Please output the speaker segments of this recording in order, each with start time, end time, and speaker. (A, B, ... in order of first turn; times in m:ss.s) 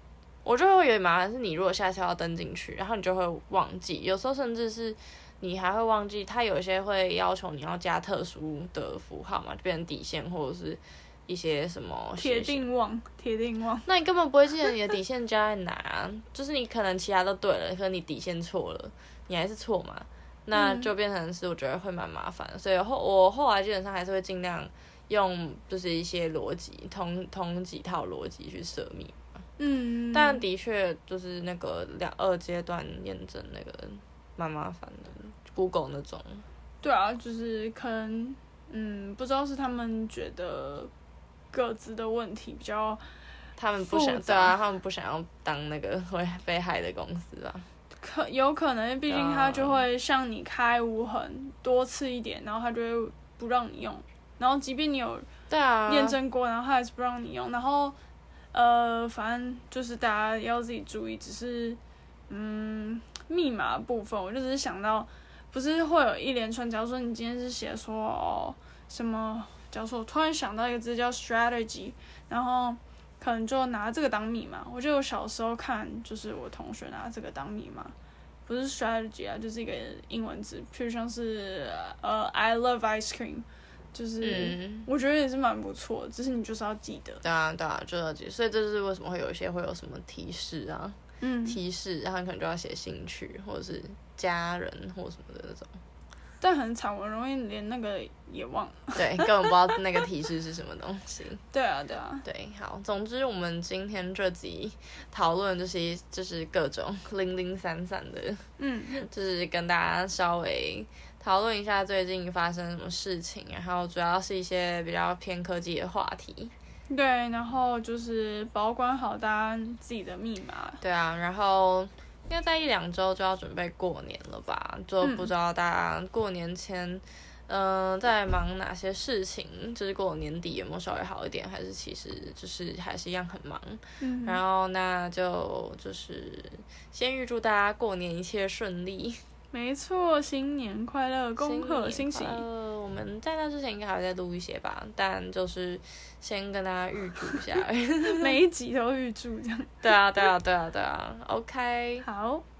0:00.4-0:12.6 A
0:12.2-0:13.9 B
0:13.8-0:29.2 A
0:20.5-0:20.9 B
0:29.6-0:30.4 B
0:30.1-0:36.4 A
0:36.8-0:40.9 B
0:41.5-0:43.0 B
0:43.6-0:47.7 A
0:43.8-0:44.5 B
0:48.0-0:55.3 B
0:49.1-0:49.8 A
0:55.5-0:56.2 A
0:55.9-0:58.0 B
0:58.5-1:17.9 B
1:18.5-1:27.2 B
1:24.2-1:24.9 A
1:27.2-1:35.8 A
1:31.2-1:31.6 B
1:36.4-1:39.5 B
1:39.0-1:41.4 A
1:41.5-1:42.2 B
1:42.2-1:56.5 A
1:48.6-1:49.0 B
1:56.9-2:00.8 B
2:00.8-2:19.2 A
2:05.0-2:05.3 B
2:14.0-2:14.4 B
2:19.5-2:22.4 B
2:21.4-2:28.4 A
2:28.1-2:29.8 B
2:29.8-2:32.1 A
2:32.0-2:32.4 B